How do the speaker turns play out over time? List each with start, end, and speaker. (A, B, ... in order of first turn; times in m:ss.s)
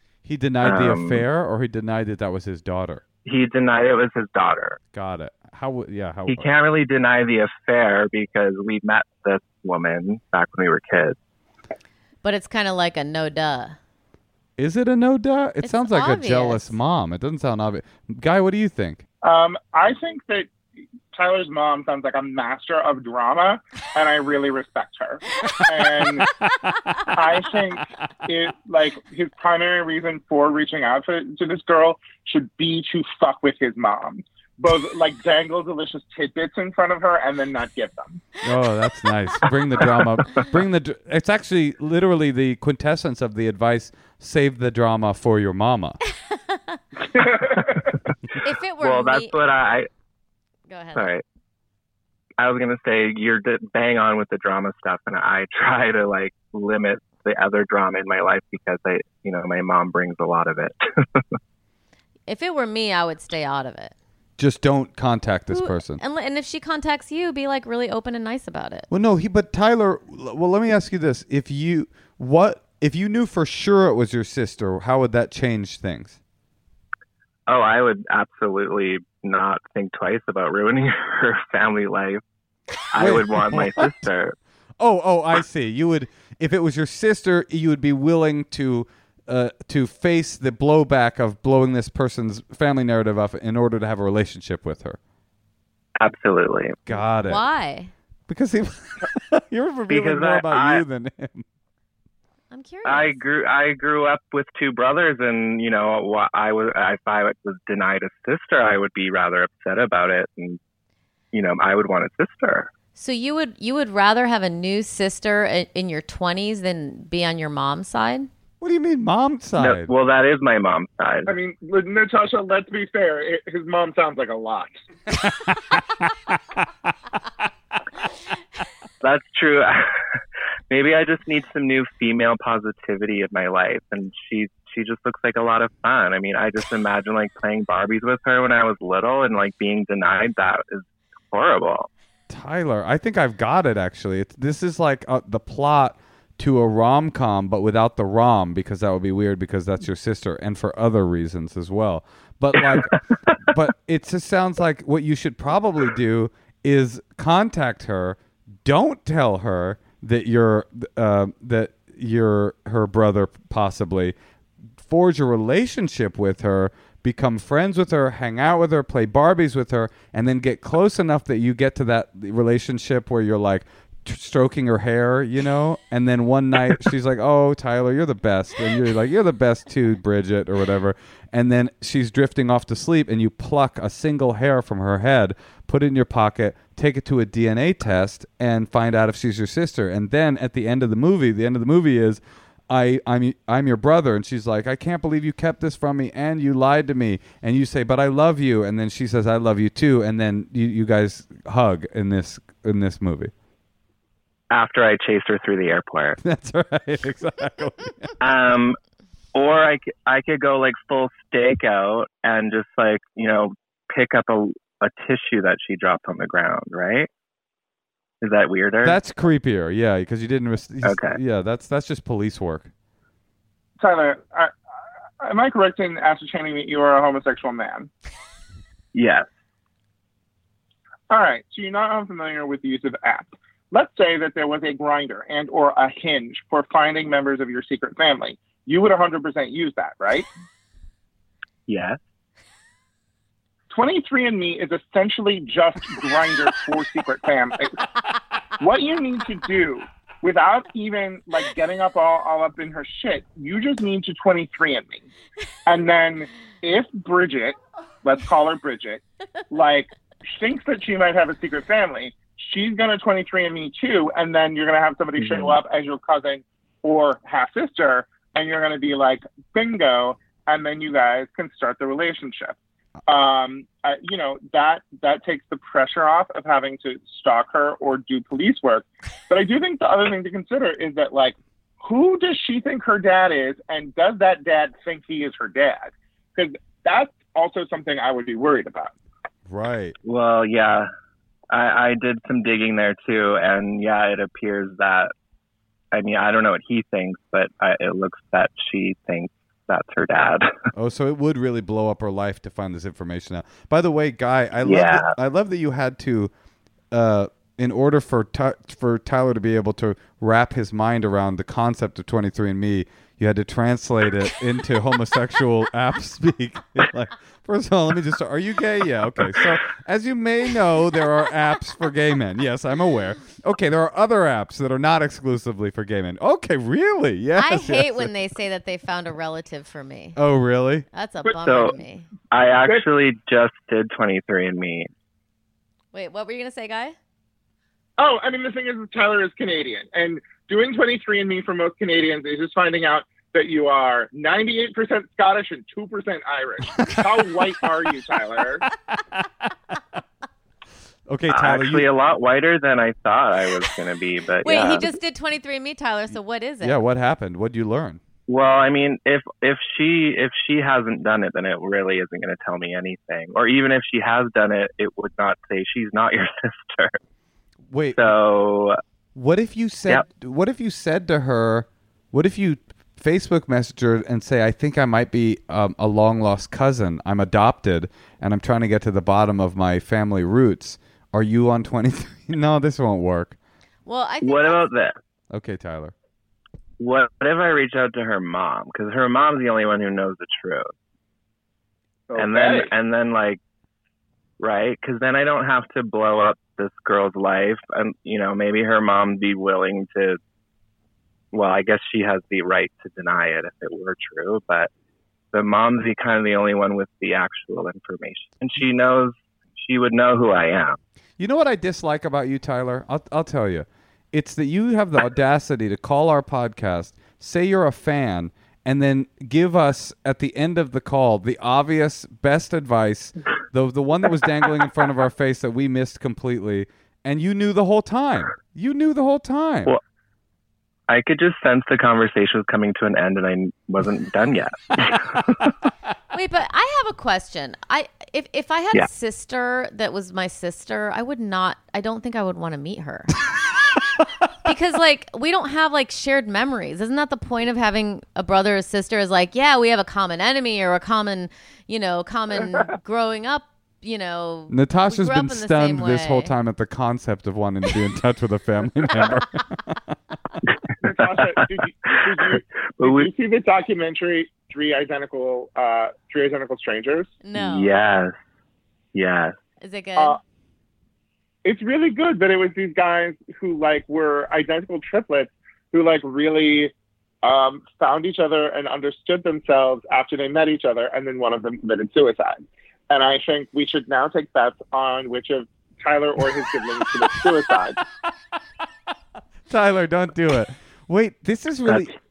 0:00.2-0:03.0 A
0:00.6-0:01.2 B
0:03.2-0:04.8 B
0:04.9-0:06.5 A
0:06.3-0:11.2 B
0:12.2-0:13.8 C
0:14.6-0:19.0 A
0:15.6-0:16.8 C
0:19.2-0:20.5 D
0:21.1-0:26.3 D
0:27.1-0:38.2 D
0:38.4-0:46.0 A
0:46.1-0:46.8 C
0:47.1-0:48.0 D
0:48.4-0:49.3 C
0:48.8-0:49.9 B
0:50.7-0:51.1 C
0:50.9-0:51.2 B
0:52.4-1:01.2 B
1:02.3-1:03.9 C
1:04.4-1:06.0 A
1:05.5-1:08.9 C
1:08.9-1:16.2 A
1:17.5-1:22.2 B
1:22.9-1:24.4 B
1:23.0-1:24.1 A
1:24.8-1:35.0 A
1:36.0-1:36.8 B
1:36.9-1:37.4 A
1:37.2-1:37.9 C
1:38.3-1:41.4 A
1:39.9-1:40.8 B
1:42.5-1:43.2 C
1:42.8-1:50.6 B
1:51.3-1:52.7 B
1:53.0-1:58.3 C
1:58.6-1:59.9 A
1:59.6-2:01.3 B
2:01.2-2:04.7 D
2:09.0-2:09.9 B
2:10.7-2:21.9 B
2:22.3-2:44.1 A
2:44.8-3:23.3 A
3:24.5-3:26.2 B
3:26.2-3:28.2 A
3:28.2-3:28.8 B
3:29.3-3:37.1 B
3:38.2-3:39.0 B
3:38.8-3:42.7 A
3:40.8-3:41.2 B
3:43.8-3:44.5 D
3:45.2-3:47.9 D
3:48.9-3:49.3 B
3:51.1-4:00.3 D
4:01.7-4:02.0 B
4:03.7-4:07.9 D
4:08.6-4:15.1 D
4:15.6-4:32.6 D
4:33.1-4:48.9 D
4:49.5-4:50.0 A
4:50.0-4:50.9 B
4:51.5-4:55.1 B
4:55.9-5:00.5 B
5:00.7-5:06.3 A
5:04.6-5:05.1 B
5:06.9-5:28.1 A
5:27.4-5:30.2 C
5:30.2-5:30.8 A
5:30.9-5:32.1 C
5:31.4-5:31.7 B
5:32.3-5:34.9 B
5:35.9-5:37.0 C
5:38.0-5:48.6 D
5:46.8-5:47.0 A
5:48.9-5:49.5 A
5:51.1-5:51.9 A
5:51.3-5:54.9 B
5:54.4-5:56.8 C
5:56.6-5:58.0 A
5:58.3-6:07.0 B
6:07.7-6:08.1 A
6:07.9-6:08.8 B
6:09.1-6:23.4 A
6:23.8-6:24.7 C
6:24.2-6:25.0 B
6:25.3-6:25.9 A
6:26.8-6:30.7 B
6:32.1-6:32.7 D
6:32.2-6:33.4 B
6:34.4-6:40.2 B
6:41.3-6:44.7 B
6:45.3-6:50.8 B
6:51.2-7:09.7 A
7:10.9-7:15.5 B
7:16.1-7:23.2 C
7:24.4-7:36.3 C
7:34.5-7:39.8 A
7:40.8-7:47.1 D
7:41.0-7:42.3 B
7:42.8-7:43.1 B
7:47.2-7:47.7 C
7:47.3-7:48.2 B
7:48.9-7:49.4 B
7:49.6-7:50.2 C
7:51.4-8:07.8 D
8:09.5-8:11.9 A
8:11.7-8:11.9 B